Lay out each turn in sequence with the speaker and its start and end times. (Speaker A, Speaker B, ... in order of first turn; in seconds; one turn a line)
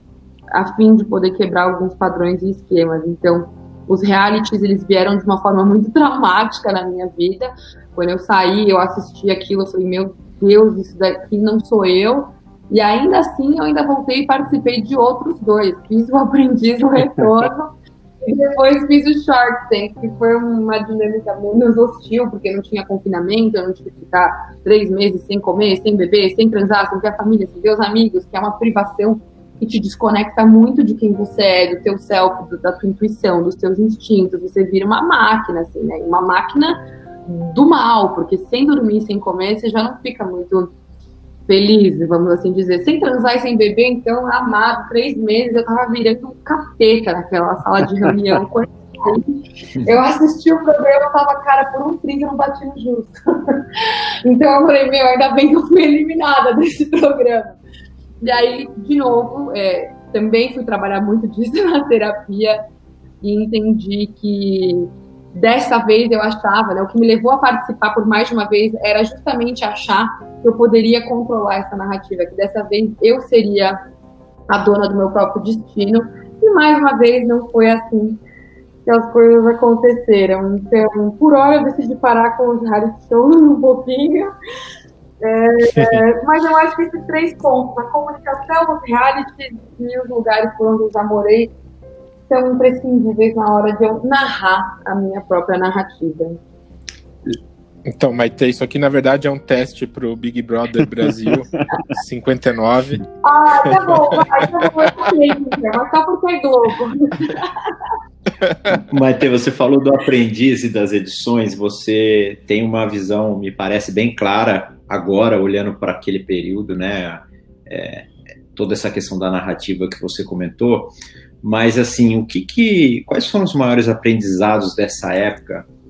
Speaker A: 0.5-40.7
Speaker A: 41.5-53.6
Speaker A: 54.2-57.6
Speaker A: 58.2-62.6
Speaker A: 63.2-73.8
Speaker A: 74.5-78.2
Speaker A: 78.8-84.3
Speaker A: 85.2-91.5
Speaker B: 85.7-86.0
Speaker A: 92.3-96.4
Speaker B: 97.8-103.1
Speaker A: 103.2-107.5
Speaker B: 103.7-104.3
Speaker B: 108.4-108.8
Speaker C: 108.9-125.7